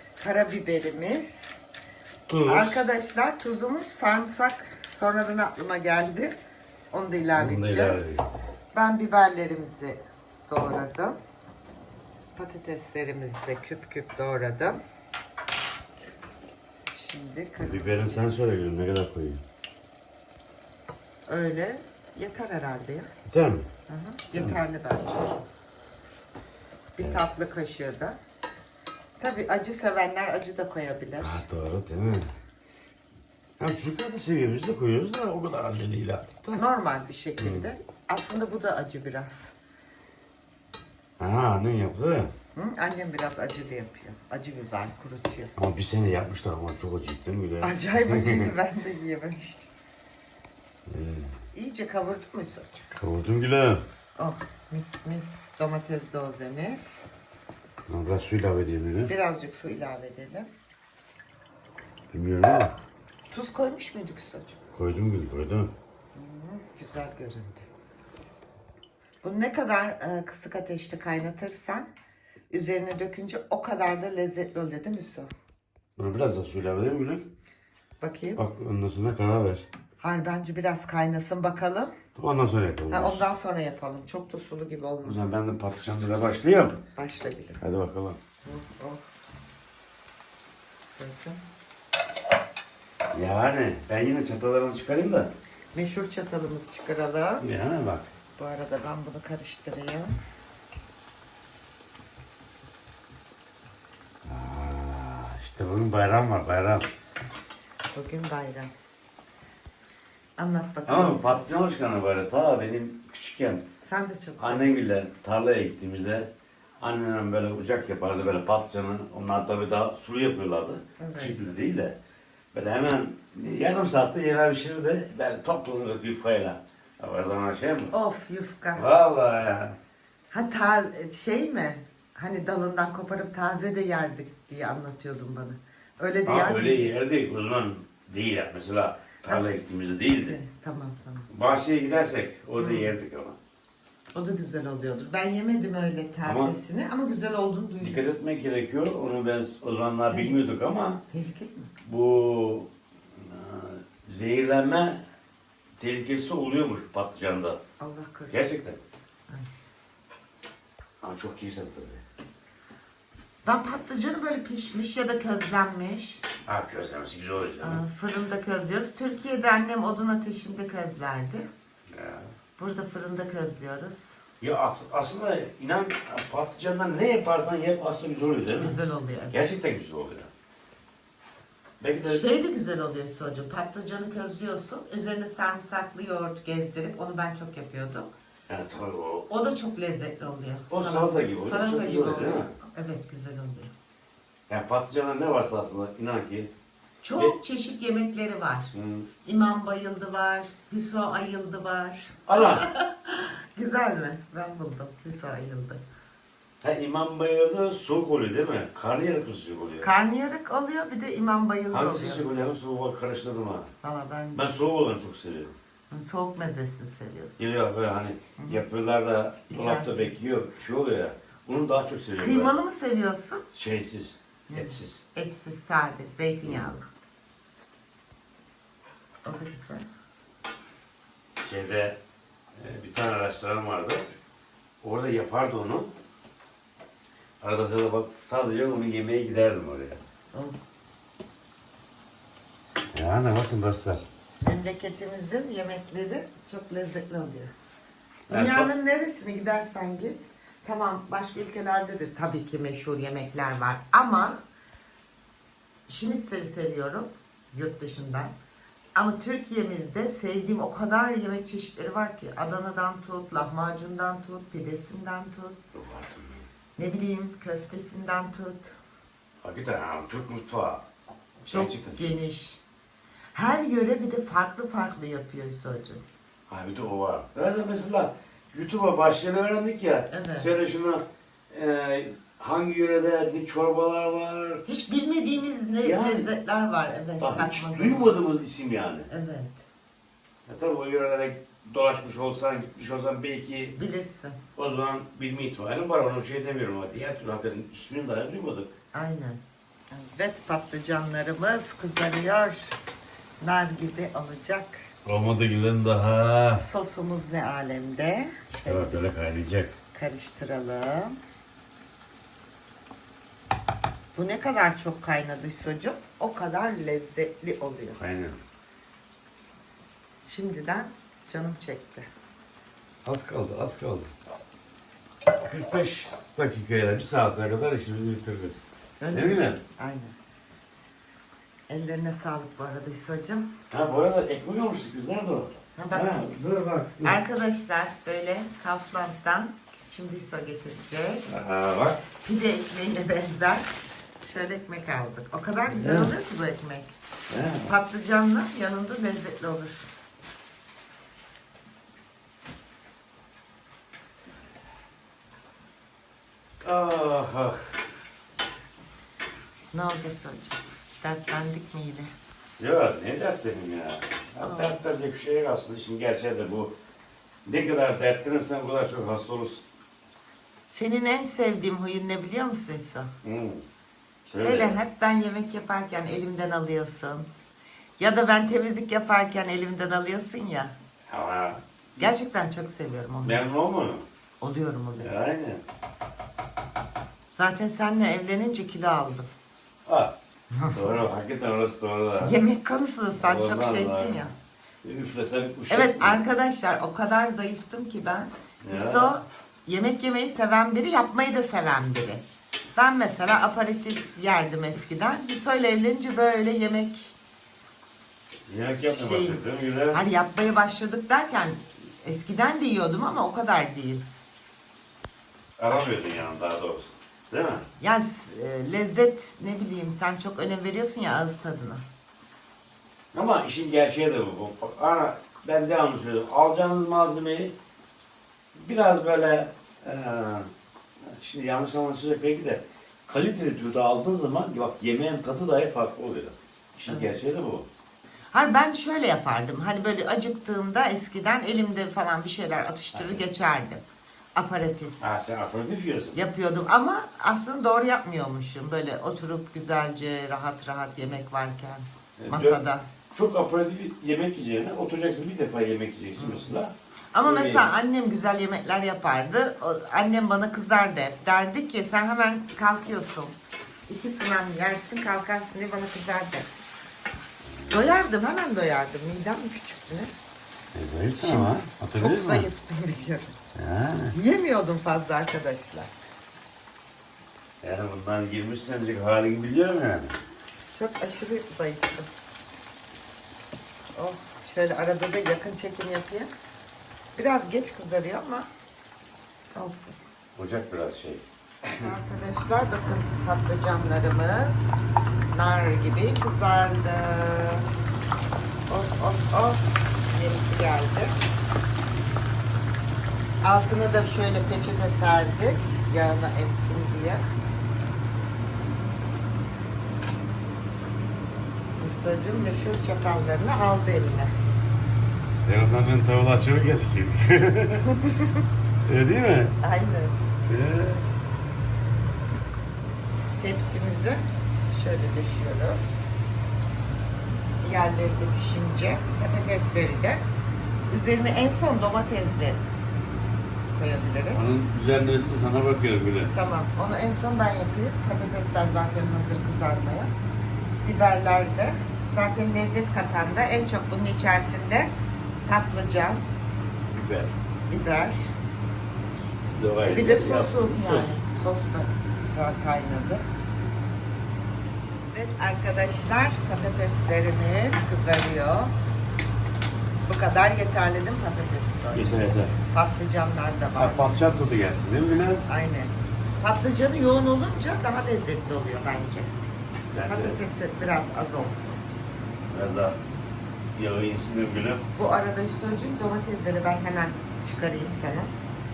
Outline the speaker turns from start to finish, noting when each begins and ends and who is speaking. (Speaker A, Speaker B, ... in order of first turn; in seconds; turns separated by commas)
Speaker A: 0.2-1.5, Speaker B: 2.3-2.8, Speaker A: 2.5-6.3, Speaker A: 6.9-11.2, Speaker B: 7.3-8.2, Speaker A: 12.3-14.8, Speaker A: 16.9-18.3, Speaker B: 17.6-19.4, Speaker A: 21.3-23.1, Speaker B: 23.3-23.7, Speaker A: 23.9-25.4, Speaker A: 26.9-28.2, Speaker A: 29.2-31.4, Speaker B: 31.2-32.3, Speaker B: 33.6-36.6, Speaker A: 36.5-39.5, Speaker B: 37.4-37.7, Speaker B: 41.2-42.3, Speaker A: 42.5-45.5, Speaker B: 45.6-48.5, Speaker A: 47.6-49.7, Speaker B: 50.9-51.3, Speaker A: 51.5-52.9, Speaker B: 52.9-53.8, Speaker A: 54.2-57.0, Speaker B: 57.9-59.1, Speaker A: 59.1-60.5, Speaker B: 62.1-62.7, Speaker A: 63.3-64.6, Speaker B: 64.7-65.7, Speaker A: 66.1-67.7, Speaker A: 69.2-71.9, Speaker A: 72.5-75.3, Speaker B: 76.0-77.3, Speaker A: 78.0-78.4, Speaker B: 78.4-79.7, Speaker A: 80.0-82.0, Speaker B: 82.2-83.2, Speaker A: 82.9-85.3, Speaker B: 85.0-86.8, Speaker A: 87.0-87.6, Speaker B: 87.6-88.2, Speaker A: 88.4-89.0, Speaker A: 90.8-91.4, Speaker B: 93.1-95.3, Speaker A: 95.7-97.4, Speaker B: 97.4-98.1, Speaker A: 98.3-100.1, Speaker B: 104.2-106.9, Speaker A: 107.9-108.7, Speaker A: 110.4-111.5, Speaker B: 110.9-113.6, Speaker A: 113.8-114.9, Speaker B: 114.4-122.0, Speaker A: 121.0-121.4, Speaker B: 122.5-127.9, Speaker A: 127.9-128.9, Speaker B: 128.8-129.8, Speaker A: 130.3-136.9, Speaker B: 136.2-140.4, Speaker A: 139.2-139.6, Speaker A: 140.1-141.3, Speaker B: 141.3-143.4, Speaker A: 142.6-142.9, Speaker A: 144.1-148.0, Speaker B: 146.2-146.5, Speaker B: 147.8-151.0, Speaker A: 150.1-151.7, Speaker B: 151.8-155.0, Speaker B: 155.8-157.6, Speaker A: 157.8-158.5, Speaker B: 158.3-158.8, Speaker B: 161.0-162.0, Speaker A: 163.4-166.2, Speaker B: 166.4-167.8, Speaker A: 167.6-171.5, Speaker B: 171.9-172.3, Speaker A: 172.6-174.2, Speaker B: 174.4-178.8, Speaker A: 178.6-179.4, Speaker B: 179.3-180.3, Speaker B: 181.8-182.2, Speaker A: 182.0-188.1, Speaker B: 188.5-189.3, Speaker A: 189.3-193.7, Speaker B: 190.7-192.5, Speaker B: 194.5-196.5, Speaker A: 197.0-198.7, Speaker B: 198.7-199.1, Speaker A: 199.2-205.8, Speaker B: 202.3-202.7, Speaker B: 206.6-209.9, Speaker A: 209.8-212.2, Speaker B: 211.7-213.7, Speaker A: 213.8-214.5, Speaker B: 214.3-215.5, Speaker A: 215.9-217.5, Speaker B: 217.4-222.5, Speaker A: 218.4-218.6, Speaker A: 219.5-220.1, Speaker A: 222.2-223.4, Speaker B: 223.5-225.0, Speaker A: 224.5-226.8, Speaker A: 229.2-229.9, Speaker B: 231.4-232.0, Speaker B: 232.6-234.1, Speaker B: 234.8-235.9, Speaker B: 237.4-240.0, Speaker B: 242.9-244.0, Speaker A: 244.4-247.5, Speaker B: 248.3-248.7, Speaker A: 248.3-254.4, Speaker A: 255.9-258.3, Speaker A: 258.9-265.6, Speaker B: 265.7-266.5, Speaker A: 266.8-268.7, Speaker B: 269.4-270.8, Speaker B: 271.4-272.2, Speaker A: 271.5-272.6, Speaker A: 273.3-276.0, Speaker B: 276.5-284.6, Speaker A: 280.1-280.5, Speaker A: 284.6-288.2, Speaker B: 285.8-286.3, Speaker B: 287.2-289.1, Speaker A: 289.1-289.6, Speaker B: 290.4-293.8, Speaker A: 293.8-294.4, Speaker B: 294.6-298.7, Speaker A: 298.9-302.7, Speaker A: 303.4-304.9, Speaker B: 305.0-306.6, Speaker A: 306.5-308.9, Speaker B: 308.6-309.7, Speaker A: 309.9-311.2, Speaker A: 314.1-318.0, Speaker B: 318.0-318.4, Speaker A: 320.2-322.1, Speaker B: 323.0-324.1, Speaker B: 325.4-329.6, Speaker A: 329.0-330.1, Speaker A: 331.7-333.5, Speaker B: 333.7-337.2, Speaker A: 335.8-336.2, Speaker A: 337.0-341.3, Speaker B: 341.3-342.0, Speaker A: 342.2-343.7, Speaker A: 344.2-346.9, Speaker B: 345.7-346.1, Speaker B: 347.3-347.7, Speaker A: 347.6-349.9, Speaker B: 356.6-357.8, Speaker A: 359.7-362.1, Speaker B: 362.6-366.7, Speaker A: 364.4-364.8, Speaker B: 367.4-369.6, Speaker A: 370.7-373.1, Speaker B: 373.2-373.6, Speaker B: 374.2-374.8, Speaker A: 374.4-377.3, Speaker A: 378.0-380.7, Speaker B: 381.1-382.1, Speaker A: 382.0-383.4, Speaker B: 383.2-384.0, Speaker A: 384.4-385.1, Speaker B: 385.0-385.6, Speaker A: 387.3-389.3, Speaker B: 389.9-390.1, Speaker A: 390.5-391.0, Speaker B: 390.7-392.4, Speaker A: 392.2-394.3, Speaker B: 393.2-394.3, Speaker B: 394.8-396.2, Speaker A: 395.7-402.2, Speaker B: 398.6-399.2, Speaker A: 402.7-407.1, Speaker B: 408.5-410.0, Speaker A: 408.8-414.1, Speaker B: 415.6-417.6, Speaker A: 417.8-421.8, Speaker B: 423.1-427.5, Speaker B: 428.5-430.5, Speaker B: 431.1-437.7, Speaker A: 436.9-437.2, Speaker A: 438.3-443.8, Speaker B: 442.9-443.2, Speaker A: 444.3-445.0, Speaker B: 445.0-446.2, Speaker A: 446.1-452.9, Speaker B: 452.2-452.6, Speaker B: 453.1-457.6, Speaker A: 456.2-456.6, Speaker A: 457.1-463.4, Speaker A: 463.9-466.5, Speaker B: 467.4-467.9, Speaker A: 467.7-470.1, Speaker B: 470.7-472.5, Speaker A: 471.2-473.3, Speaker B: 473.5-474.1, Speaker A: 474.1-475.9, Speaker B: 477.6-480.2, Speaker A: 480.7-482.1, Speaker A: 483.9-486.3, Speaker A: 487.1-488.5, Speaker A: 489.5-490.0, Speaker B: 490.4-491.9, Speaker A: 491.8-497.6, Speaker A: 498.7-501.1, Speaker A: 503.4-507.3, Speaker A: 511.8-514.3, Speaker B: 515.4-518.0, Speaker A: 517.9-518.3, Speaker B: 518.8-519.5, Speaker A: 519.6-520.2, Speaker B: 520.5-521.0, Speaker A: 523.4-526.1, Speaker A: 527.6-530.2, Speaker A: 530.9-532.6, Speaker A: 533.7-534.6, Speaker B: 534.3-536.3, Speaker A: 536.3-540.1, Speaker A: 540.8-544.9, Speaker A: 545.4-546.2, Speaker B: 546.9-547.3, Speaker A: 547.7-548.3, Speaker B: 549.5-551.1, Speaker A: 549.9-553.2, Speaker A: 555.1-558.7, Speaker A: 560.1-562.1, Speaker B: 561.9-562.5, Speaker A: 562.7-564.2, Speaker B: 563.8-565.4, Speaker A: 565.5-569.3, Speaker B: 569.9-570.4, Speaker A: 570.0-571.8, Speaker B: 572.5-573.0, Speaker B: 573.7-574.8, Speaker A: 574.9-578.3